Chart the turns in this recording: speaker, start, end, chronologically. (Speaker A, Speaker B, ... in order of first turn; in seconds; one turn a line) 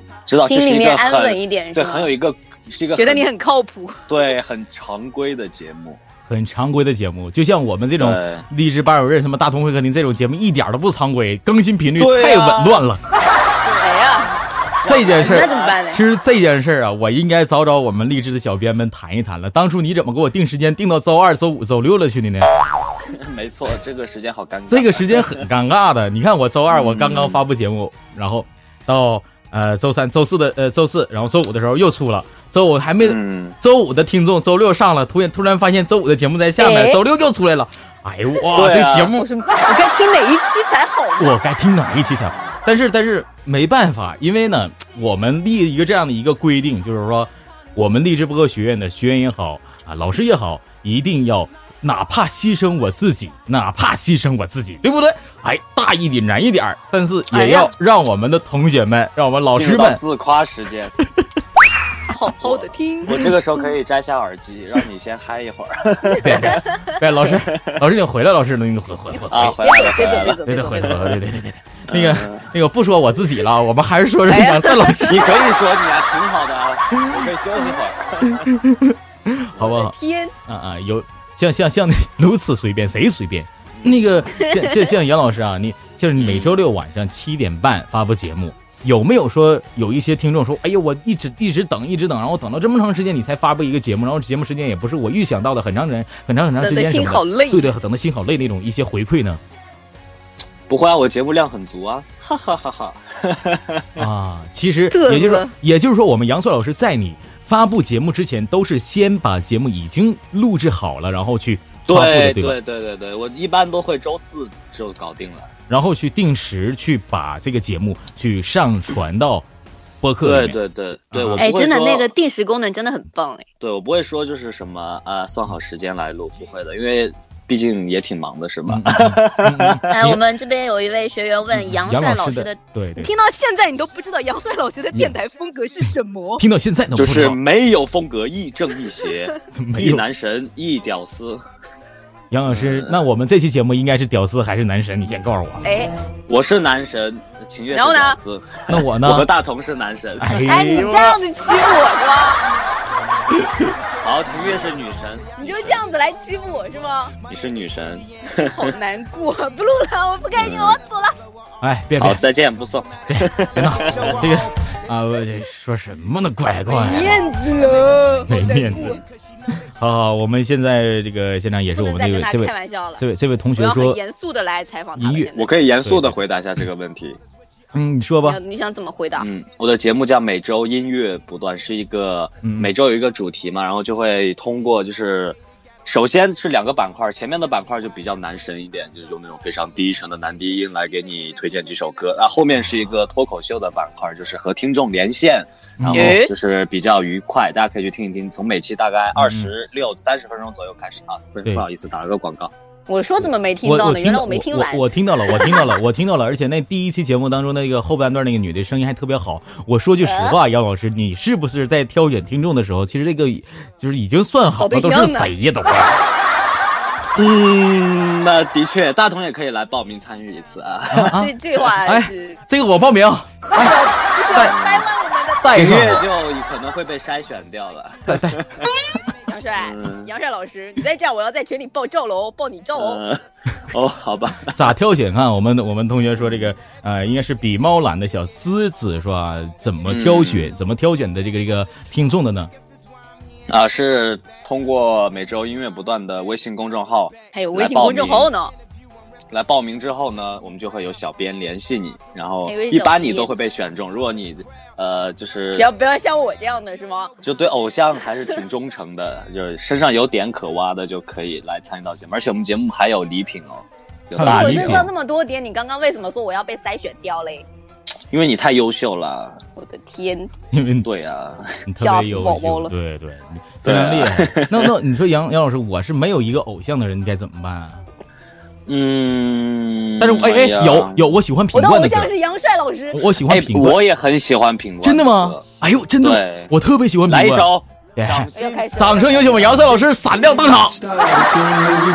Speaker A: 0.3-3.2
Speaker B: 0.4-2.1
Speaker B: 2.9-4.3
Speaker A: 4.1-6.0
Speaker C: 6.3-13.0
Speaker A: 8.0-8.4
Speaker A: 11.9-12.8
Speaker A: 13.6-15.8
Speaker B: 13.8-14.3
Speaker C: 14.8-22.5
Speaker B: 14.9-16.0
Speaker A: 23.1-25.4
Speaker C: 24.7-39.2
Speaker A: 26.7-27.4
Speaker A: 33.0-33.5
Speaker B: 36.6-37.0
Speaker A: 38.5-39.1
Speaker B: 39.1-41.3
Speaker C: 41.2-60.0
Speaker A: 42.3-42.6
Speaker B: 57.3-57.7
Speaker A: 59.5-61.0
Speaker B: 62.1-63.3
Speaker A: 62.4-66.6
Speaker C: 66.2-75.3
Speaker B: 66.3-66.9
Speaker A: 67.2-67.8
Speaker A: 69.3-71.2
Speaker B: 69.5-71.1
Speaker A: 71.9-72.5
Speaker B: 74.3-75.1
Speaker A: 75.0-78.5
Speaker C: 78.4-79.9
Speaker B: 79.6-80.3
Speaker C: 80.5-99.4
Speaker A: 83.7-84.2
Speaker B: 84.4-84.8
Speaker A: 86.2-86.6
Speaker B: 96.6-97.7
Speaker A: 100.7-104.1
Speaker C: 104.0-112.6
Speaker B: 104.9-105.5
Speaker A: 111.9-115.5
Speaker C: 115.7-119.5
Speaker C: 120.0-120.6
Speaker A: 120.2-122.1
Speaker C: 121.1-121.5
Speaker B: 121.4-123.4
Speaker A: 123.6-129.9
Speaker C: 128.7-130.2
Speaker B: 129.9-136.4
Speaker C: 131.5-133.1
Speaker C: 136.4-137.4
Speaker A: 136.9-141.4
Speaker C: 139.5-140.0
Speaker C: 142.3-145.7
Speaker A: 142.5-143.0
Speaker B: 145.6-145.9
Speaker A: 146.3-151.2
Speaker B: 147.7-148.2
Speaker C: 148.7-149.3
Speaker C: 150.2-151.0
Speaker B: 150.4-152.4
Speaker C: 153.4-153.6
Speaker A: 154.0-155.8
Speaker B: 155.3-157.1
Speaker A: 157.3-158.7
Speaker B: 158.3-161.1
Speaker A: 160.4-160.8
Speaker C: 161.6-162.2
Speaker A: 162.0-164.2
Speaker C: 163.1-167.3
Speaker B: 166.7-169.0
Speaker C: 168.2-169.0
Speaker C: 169.6-174.0
Speaker B: 171.8-173.0
Speaker B: 173.6-175.5
Speaker C: 175.0-175.3
Speaker A: 175.3-177.2
Speaker C: 175.8-176.2
Speaker C: 177.7-178.4
Speaker B: 178.2-179.3
Speaker A: 179.2-202.5
Speaker C: 182.4-182.7
Speaker C: 195.8-196.2
Speaker B: 195.9-196.3
Speaker C: 199.2-199.5
Speaker B: 202.9-205.7
Speaker C: 203.6-216.0
Speaker B: 210.0-210.4
Speaker B: 214.6-215.3
Speaker A: 217.2-221.2
Speaker C: 220.9-223.8
Speaker B: 221.1-222.4
Speaker B: 223.5-225.8
Speaker A: 224.3-224.9
Speaker C: 225.4-226.1
Speaker A: 225.4-228.7
Speaker C: 228.1-228.4
Speaker B: 229.3-233.0
Speaker A: 229.6-230.1
Speaker A: 232.8-234.7
Speaker C: 234.5-242.5
Speaker A: 236.2-236.5
Speaker A: 239.8-240.5
Speaker A: 243.5-248.3
Speaker B: 247.3-248.5
Speaker A: 249.3-255.7
Speaker B: 252.4-253.3
Speaker B: 255.5-257.1
Speaker A: 257.2-264.9
Speaker C: 264.1-264.9
Speaker B: 264.2-267.4
Speaker A: 268.1-269.4
Speaker B: 269.6-270.3
Speaker C: 270.5-270.9
Speaker A: 270.8-271.6
Speaker C: 271.7-277.8
Speaker B: 271.8-272.7
Speaker A: 273.6-274.7
Speaker A: 278.7-281.2
Speaker C: 280.0-282.1
Speaker B: 281.5-283.0
Speaker C: 282.9-283.8
Speaker A: 283.3-285.4
Speaker C: 284.8-290.8
Speaker A: 286.0-286.5
Speaker A: 287.1-289.9
Speaker B: 288.3-289.4
Speaker A: 290.5-291.3